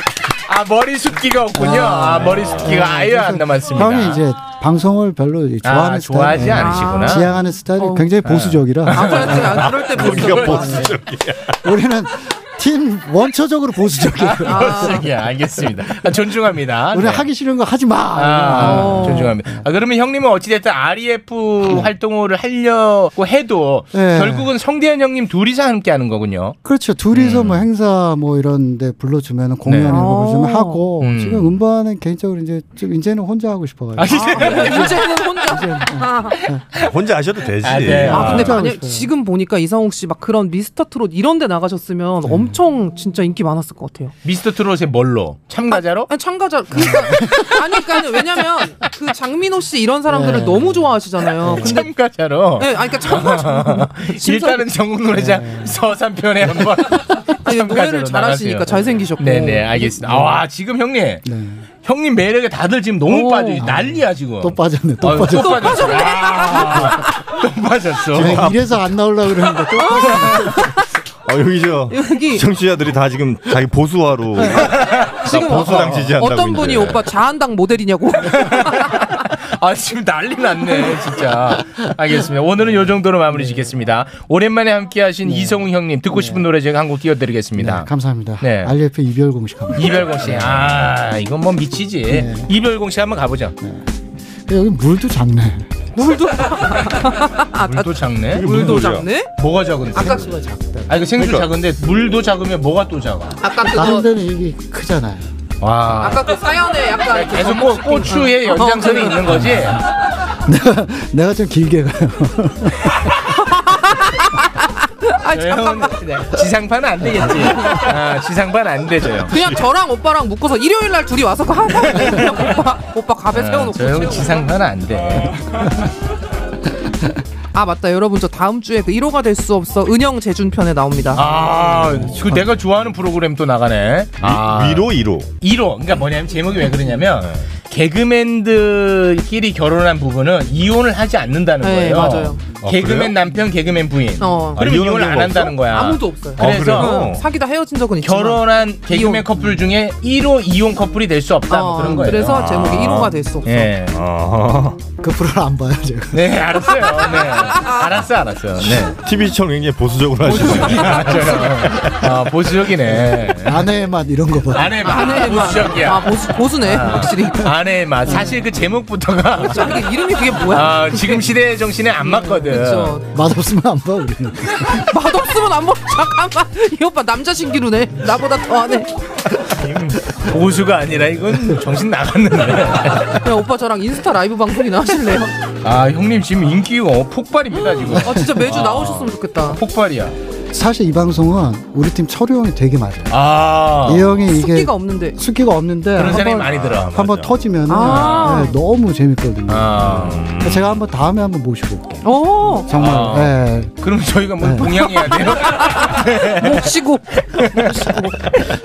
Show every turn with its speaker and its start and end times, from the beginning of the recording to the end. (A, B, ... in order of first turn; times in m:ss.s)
0:00.5-0:04.2 A
0:01.6-0:09.7 B
0:02.3-0:02.7 C
0:05.6-0:07.3 A
0:06.5-0:08.1 D
0:08.2-0:10.9 A
0:08.9-0:10.8 D
0:09.3-0:11.6 C
0:10.3-0:10.9 B
0:11.6-0:15.1 B
0:14.2-0:17.3 A
0:14.5-0:15.0 D
0:16.9-0:19.6 B
0:18.2-0:26.6 A
0:18.6-0:19.3 D
0:23.9-0:24.5 B
0:26.6-0:36.6 B
0:27.1-0:27.6 A
0:29.6-0:30.0 A
0:29.9-0:30.8 D
0:31.0-0:31.6 A
0:34.0-0:35.1 A
0:34.1-0:36.4 D
0:36.8-0:38.6 C
0:37.6-0:38.5 A
0:38.0-0:39.1 B
0:38.1-0:44.1 D
0:42.3-0:42.6 B
0:44.2-0:46.1 A
0:45.7-0:51.9 D
0:46.9-0:47.3 B
0:47.0-0:47.4 A
0:50.1-0:51.8 B
0:51.4-1:01.2 A
0:52.6-0:54.6 D
0:55.1-0:55.8 B
0:57.4-0:59.9 D
0:59.8-1:00.4 B
1:01.2-1:01.7 B
1:01.8-1:08.6 A
1:03.1-1:03.7 D
1:03.6-1:05.9 B
1:05.3-1:07.1 D
1:08.1-1:10.7 B
1:09.8-1:10.6 D
1:11.3-1:17.0 C
1:11.9-1:12.5 D
1:14.6-1:16.0 A
1:15.2-1:19.2 D
1:18.3-1:27.9 A
1:23.3-1:23.7 B
1:25.2-1:26.4 B
1:27.6-1:30.7 B
1:28.4-1:28.7 A
1:29.8-1:33.6 A
1:32.1-1:32.5 B
1:33.6-1:33.9 B
1:34.5-1:35.7 B
1:36.0-1:39.3 D
1:37.7-1:38.5 A
1:38.3-1:39.1 C
1:39.4-1:40.3 A
1:40.0-1:40.6 D
1:40.3-1:40.9 B
1:40.9-1:43.4 A
1:41.2-1:41.5 C
1:43.4-1:44.1 D
1:43.7-1:45.3 B
1:45.6-1:46.4 A
1:46.0-1:49.4 D
1:47.0-1:49.8 A
1:49.3-1:49.8 B
1:50.3-1:53.1 B
1:53.3-1:56.0 D
1:55.3-1:59.3 A
1:57.6-1:57.8 D
1:59.3-2:04.5 D
2:01.9-2:02.3 A
2:03.3-2:05.4 A
2:07.5-2:11.2 D
2:11.1-2:14.9 A
2:14.2-2:15.3 C
2:15.4-2:27.1 A
2:17.2-2:17.4 C
2:21.6-2:22.4 D
2:22.6-2:23.2 C
2:24.2-2:24.6 D
2:24.6-2:25.6 C
2:25.6-2:29.3 D
2:26.4-2:27.2 C
2:28.0-2:32.4 A
2:31.5-2:33.7 D
2:32.0-2:33.2 C
2:33.5-2:34.0 A
2:33.9-2:34.8 C
2:35.0-2:36.2 B
2:36.1-2:39.0 A
2:38.9-2:41.8 C
2:40.3-2:41.4 D
2:40.3-2:43.7 A
2:43.4-2:45.4 B
2:44.5-2:49.8 A
2:44.8-2:47.5 D
2:48.1-2:48.4 B
2:49.4-2:51.3 D
2:50.4-2:53.0 A
2:52.0-2:53.0 D
2:53.1-2:54.9 B
2:54.6-2:58.9 D
2:59.5-3:03.2 A
3:03.1-3:05.4 D
3:05.6-3:10.2 A
3:07.7-3:09.6 D
3:10.5-3:13.2 B
3:13.1-3:14.1 A
3:13.8-3:23.7 B
3:14.3-3:15.2 D
3:16.0-3:17.0 A
3:16.5-3:17.3 C
3:17.7-3:18.6 D
3:17.8-3:18.4 A
3:19.5-3:20.3 A
3:19.8-3:20.8 C
3:22.0-3:22.7 D
3:22.7-3:26.6 A
3:24.4-3:24.9 B
3:25.6-3:28.2 D